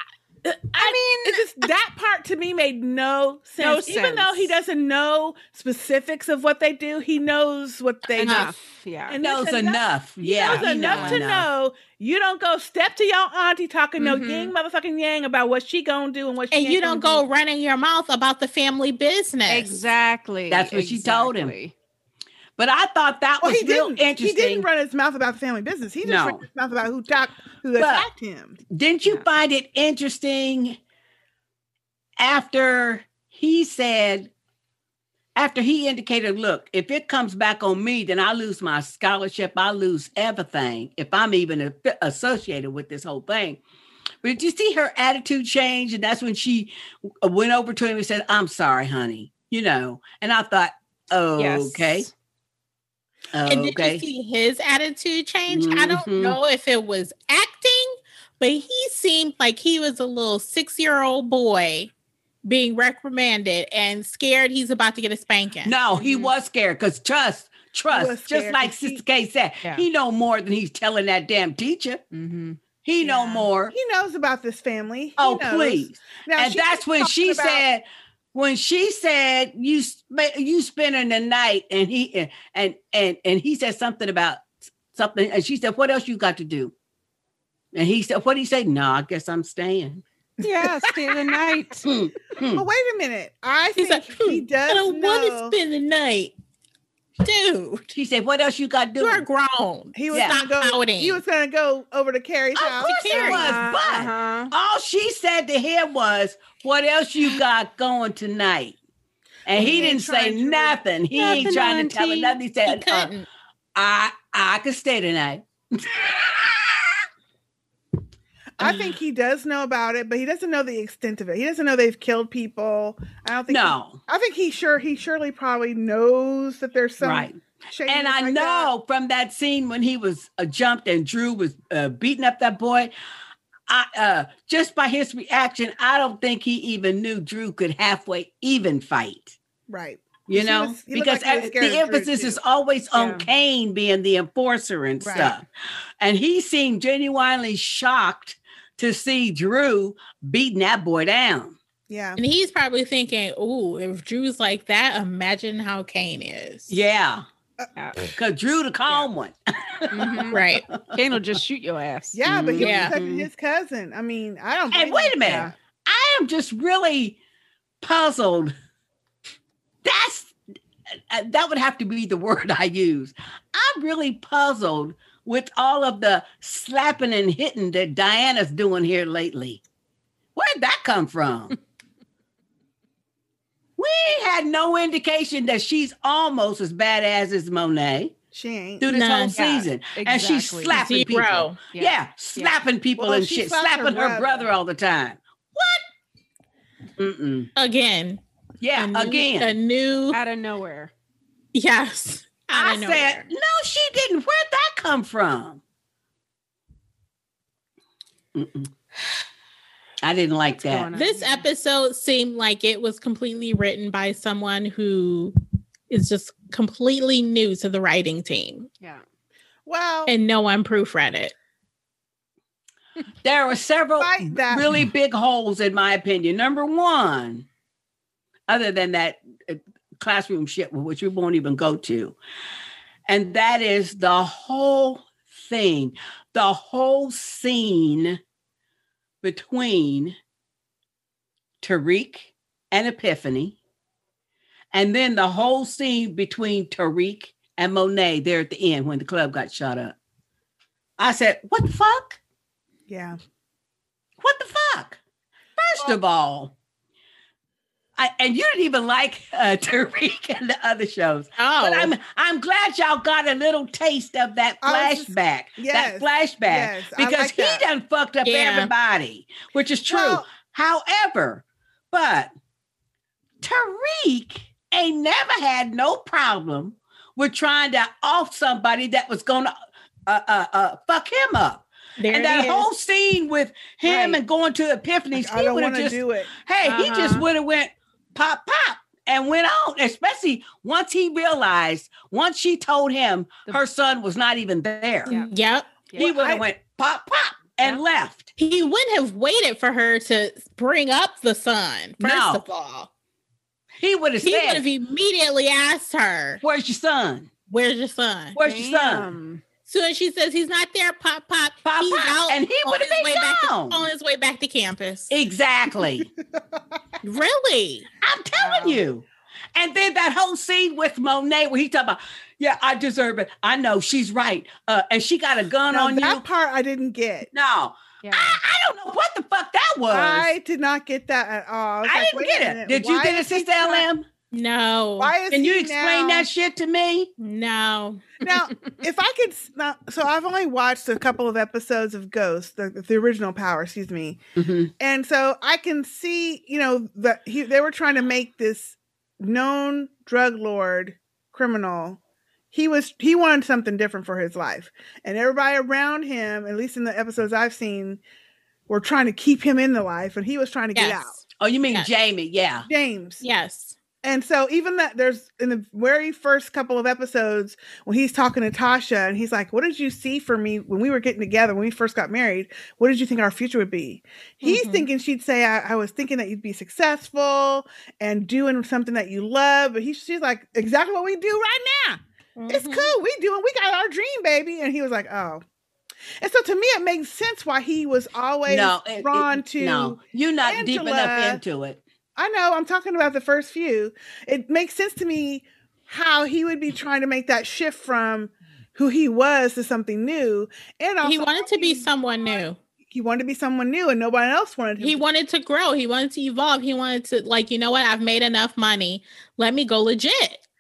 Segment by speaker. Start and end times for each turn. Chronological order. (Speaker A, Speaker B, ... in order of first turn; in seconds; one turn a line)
Speaker A: 0.7-8.5
Speaker B: 0.7-1.4
Speaker B: 3.6-4.5
Speaker B: 8.2-9.2
Speaker A: 9.1-17.2
Speaker C: 9.2-11.5
Speaker B: 10.4-11.2
Speaker B: 14.0-14.5
Speaker D: 16.5-19.8
Speaker B: 19.5-21.7
Speaker C: 20.5-21.5
Speaker C: 22.6-24.7
Speaker A: 23.4-28.6
Speaker C: 26.0-26.4
Speaker C: 27.8-28.1
Speaker C: 28.7-30.8
Speaker C: 32.2-34.3
Speaker C: 35.4-43.6
Speaker C: 44.2-52.1
Speaker B: 51.4-52.1
Speaker C: 53.3-54.0
Speaker D: 53.5-61.9
Speaker C: 55.5-56.4
Speaker D: 62.4-65.7
Speaker C: 65.6-72.0
Speaker B: 65.9-66.3
Speaker A: 67.9-69.0
Speaker B: 72.1-72.6
Speaker C: 72.8-73.7
Speaker A: 73.0-77.6
Speaker C: 75.2-86.7
Speaker C: 87.7-90.0
Speaker B: 90.4-91.9
Speaker A: 90.4-91.4
Speaker C: 91.8-92.6
Speaker A: 92.4-95.5
Speaker D: 93.8-96.3
Speaker D: 97.2-97.9
Speaker C: 97.9-99.2
Speaker D: 99.0-101.2
Speaker A: 99.9-103.5
Speaker C: 100.1-100.4
Speaker C: 102.5-108.8
Speaker D: 102.8-103.5
Speaker B: 103.1-104.5
Speaker C: 109.5-113.1
Speaker A: 109.5-110.8
Speaker B: 109.6-109.9
Speaker B: 111.2-112.4
Speaker D: 112.6-113.3
Speaker C: 113.8-117.0
Speaker A: 118.6-128.7
Speaker C: 123.5-124.0
Speaker C: 127.0-132.9
Speaker C: 133.7-139.3
Speaker A: 139.7-142.4
Speaker C: 140.3-145.4
Speaker B: 142.9-143.3
Speaker A: 145.0-145.3
Speaker C: 146.0-151.6
Speaker A: 151.9-152.2
Speaker D: 152.2-156.8
Speaker C: 156.7-157.2
Speaker B: 157.8-158.0
Speaker C: 158.1-160.9
Speaker B: 159.9-160.4
Speaker D: 160.3-160.6
Speaker B: 160.9-162.2
Speaker A: 162.1-165.5
Speaker C: 162.2-163.3
Speaker D: 162.6-162.9
Speaker C: 164.7-167.2
Speaker C: 167.8-168.5
Speaker C: 169.8-170.3
Speaker C: 171.1-179.6
Speaker C: 180.3-181.6
Speaker C: 183.8-188.1
Speaker A: 188.3-188.9
Speaker C: 188.8-195.9
Speaker D: 188.9-189.4
Speaker B: 189.3-191.0
Speaker D: 190.7-191.6
Speaker B: 191.7-192.6
Speaker A: 193.0-194.5
Speaker C: 197.0-197.5
Speaker D: 197.6-198.2
Speaker C: 198.6-199.5
Speaker D: 198.7-200.2
Speaker B: 200.1-200.9
Speaker D: 201.5-203.3
Speaker C: 202.5-205.6
Speaker C: 208.3-208.7
Speaker C: 210.0-210.9
Speaker B: 210.5-211.4
Speaker D: 210.9-215.3
Speaker D: 215.9-218.7
Speaker A: 219.7-220.1
Speaker D: 220.1-221.3
Speaker C: 223.2-227.4
Speaker A: 224.0-224.7
Speaker C: 228.5-232.2
Speaker C: 233.1-238.2
Speaker C: 239.2-240.2
Speaker C: 241.6-243.6
Speaker C: 244.7-249.9
Speaker C: 251.0-252.2
Speaker A: 252.9-253.2
Speaker C: 254.2-255.0
Speaker C: 255.6-256.5
Speaker C: 258.0-272.3
Speaker D: 261.4-261.9
Speaker A: 264.6-267.7
Speaker D: 268.2-268.7
Speaker A: 269.9-270.2
Speaker C: 273.4-279.5
Speaker C: 280.1-295.1
Speaker D: 282.0-282.7
Speaker B: 283.8-284.2
Speaker A: 285.1-286.3
Speaker B: 286.6-287.2
Speaker D: 295.1-295.7
Speaker C: 295.9-298.3
Speaker A: 296.0-296.4
Speaker D: 298.4-302.9
Speaker C: 302.0-302.4
Speaker C: 303.8-304.6
Speaker D: 304.2-306.4
Speaker C: 306.4-307.3
Speaker D: 307.5-308.4
Speaker C: 308.3-309.1
Speaker B: 308.4-309.4
Speaker D: 309.7-315.1
Speaker C: 311.6-313.8
Speaker C: 315.1-316.1
Speaker D: 317.0-317.9
Speaker C: 318.0-326.2
Speaker B: 318.4-318.8
Speaker A: 325.7-327.3
Speaker C: 327.3-330.3
Speaker B: 328.0-328.4
Speaker A: 329.9-333.9
Speaker C: 331.8-334.1
Speaker D: 334.3-335.1
Speaker A: 335.0-336.3
Speaker C: 335.3-337.1
Speaker D: 337.2-338.0
Speaker A: 338.2-344.2
Speaker C: 344.4-344.7
Speaker A: 344.8-352.0
Speaker A: 352.5-358.0
Speaker A: 358.7-361.2
Speaker D: 360.7-361.1
Speaker C: 361.4-362.7
Speaker A: 362.6-363.2
Speaker D: 363.2-363.7
Speaker A: 364.0-385.4
Speaker D: 374.4-374.9
Speaker D: 382.4-382.9
Speaker A: 386.2-391.4
Speaker C: 388.4-391.8
Speaker A: 392.1-405.0
Speaker D: 401.0-402.6
Speaker D: 404.8-410.4